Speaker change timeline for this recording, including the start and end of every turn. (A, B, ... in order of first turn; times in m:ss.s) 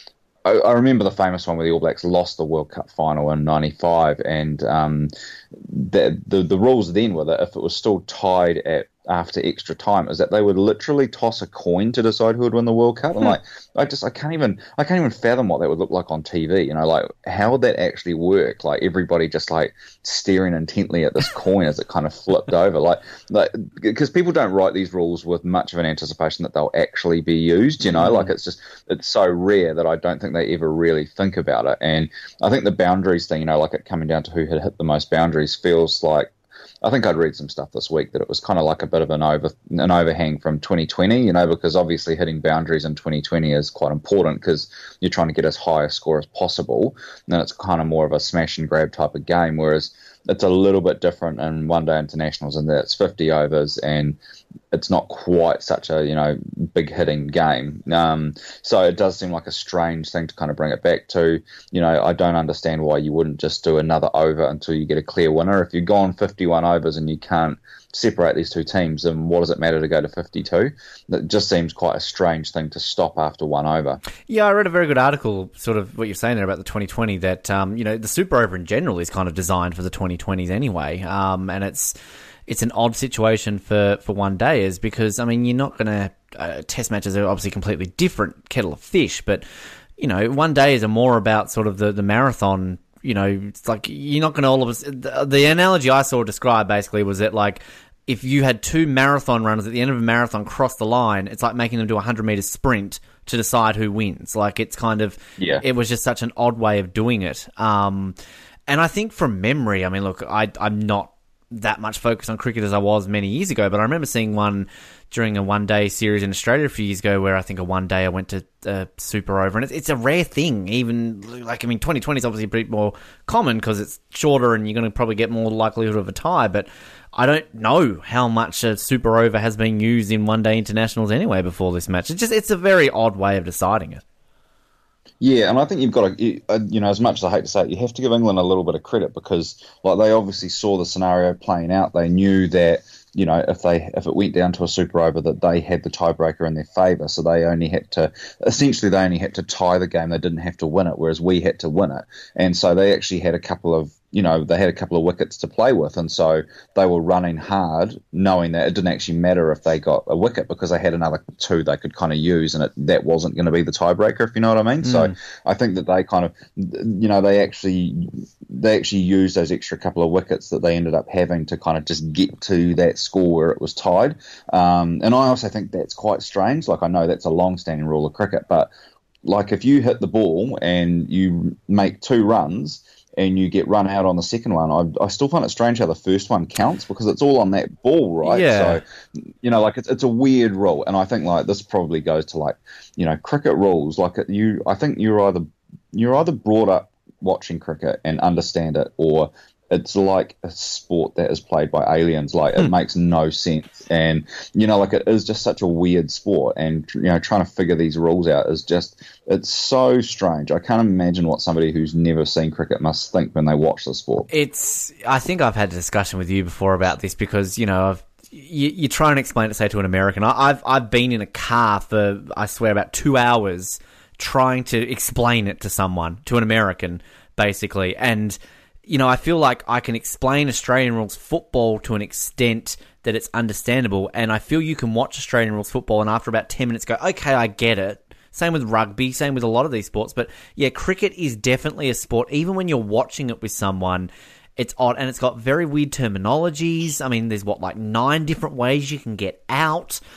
0:00.4-0:36.3 A
0:27.9-0:28.3 B
0:36.8-0:54.2 A
0:54.7-1:14.0 A
1:14.3-1:22.0 B
1:22.5-1:29.4 B
1:30.0-1:48.2 B
1:45.4-1:45.6 A
1:48.7-2:14.0 B
2:15.2-2:58.7 A
2:44.8-2:45.2 B
2:59.2-3:08.8 A
3:08.2-3:08.8 B
3:09.4-3:34.3 A
3:34.3-4:10.0 B